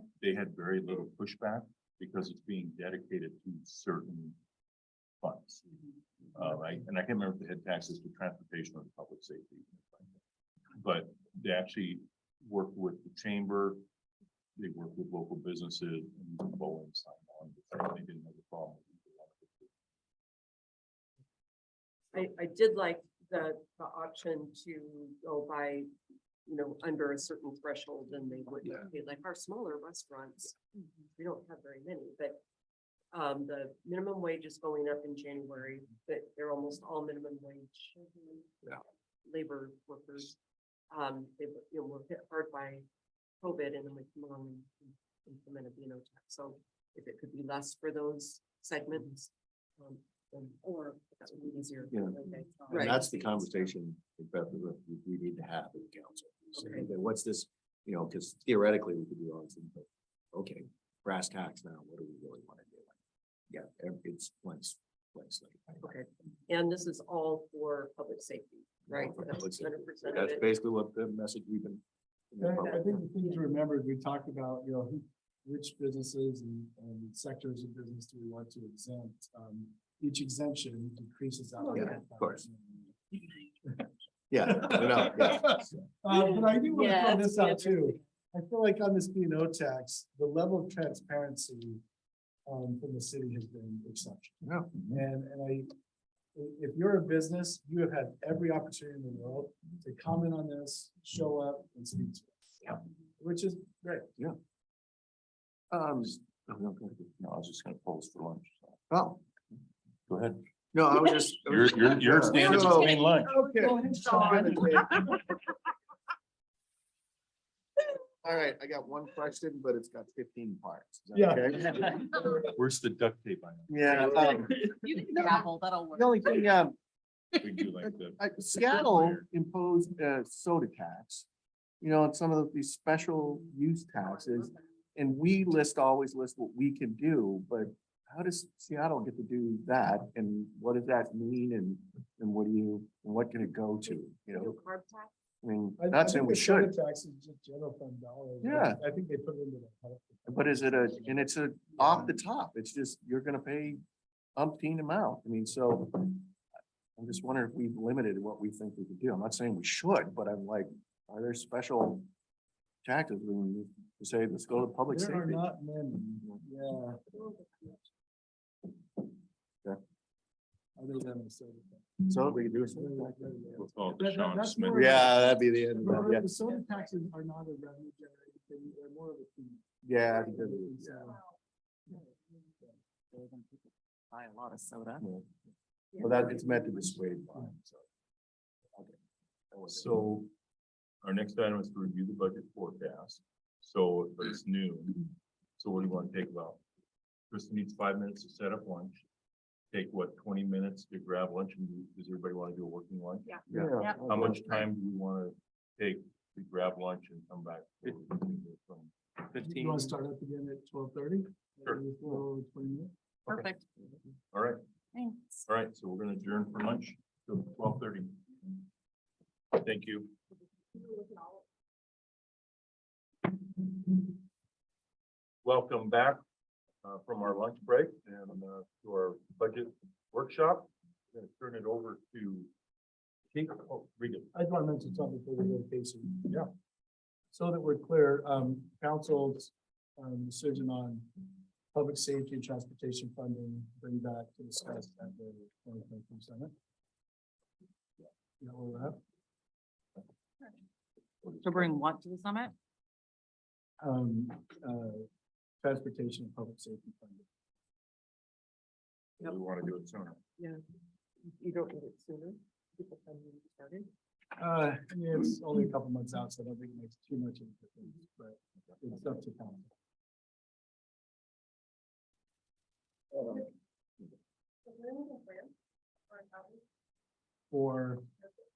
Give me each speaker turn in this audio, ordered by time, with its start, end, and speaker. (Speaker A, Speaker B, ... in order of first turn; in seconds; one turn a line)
Speaker A: 0.2-4.4
Speaker A: 5.2-5.6
Speaker A: 6.3-10.2
Speaker A: 10.7-13.8
Speaker A: 14.6-19.7
Speaker B: 22.1-25.9
Speaker B: 26.4-30.6
Speaker B: 31.1-32.4
Speaker B: 33.1-38.5
Speaker B: 39.2-40.4
Speaker B: 40.9-42.9
Speaker B: 43.4-53.2
Speaker C: 51.9-52.2
Speaker C: 52.7-62.9
Speaker B: 56.5-56.9
Speaker C: 63.5-65.9
Speaker B: 65.8-70.5
Speaker C: 68.9-73.0
Speaker D: 72.4-83.0
Speaker B: 81.6-82.0
Speaker C: 81.7-82.4
Speaker C: 84.3-85.8
Speaker D: 84.4-91.8
Speaker B: 86.2-88.0
Speaker D: 92.5-95.7
Speaker C: 94.4-95.0
Speaker D: 96.3-104.1
Speaker C: 105.7-107.0
Speaker A: 107.0-108.8
Speaker C: 108.9-109.2
Speaker A: 110.1-110.4
Speaker C: 110.7-115.0
Speaker A: 111.3-113.3
Speaker D: 113.2-114.9
Speaker E: 113.6-115.0
Speaker C: 118.2-122.2
Speaker D: 121.1-122.0
Speaker A: 122.2-124.3
Speaker C: 123.7-126.8
Speaker E: 123.8-126.5
Speaker A: 127.4-129.3
Speaker C: 128.2-131.3
Speaker C: 131.8-144.6
Speaker B: 143.9-145.1
Speaker C: 145.4-146.7
Speaker D: 145.8-151.2
Speaker C: 148.4-148.8
Speaker C: 150.3-153.8
Speaker C: 154.3-156.4
Speaker C: 157.0-162.1
Speaker C: 162.8-165.4
Speaker D: 164.9-167.3
Speaker D: 170.8-179.7
Speaker C: 172.1-173.6
Speaker A: 173.5-175.0
Speaker C: 174.7-176.3
Speaker C: 179.8-181.1
Speaker D: 180.2-181.2
Speaker E: 183.1-185.1
Speaker B: 185.9-186.2
Speaker C: 186.0-187.8
Speaker C: 189.5-189.9
Speaker A: 189.7-190.3
Speaker A: 191.0-195.1
Speaker A: 195.6-196.6
Speaker A: 197.3-199.0
Speaker A: 199.7-208.9
Speaker C: 203.5-204.6
Speaker E: 203.8-204.0
Speaker C: 209.3-209.9
Speaker D: 209.4-212.9
Speaker E: 213.3-213.7
Speaker A: 214.3-214.6
Speaker E: 214.9-215.4
Speaker A: 215.5-218.6
Speaker A: 219.5-220.1
Speaker A: 223.4-224.1
Speaker A: 225.4-226.2
Speaker A: 226.8-232.5
Speaker A: 233.3-234.3
Speaker D: 234.3-236.4
Speaker D: 237.3-246.5
Speaker D: 248.4-249.0
Speaker A: 251.2-251.7
Speaker E: 251.4-252.5
Speaker D: 253.8-255.1
Speaker D: 255.6-257.2
Speaker A: 259.2-260.2
Speaker B: 261.2-263.9
Speaker D: 264.4-269.7
Speaker C: 273.1-273.4
Speaker B: 274.7-275.5
Speaker B: 276.1-276.4
Speaker D: 277.5-278.1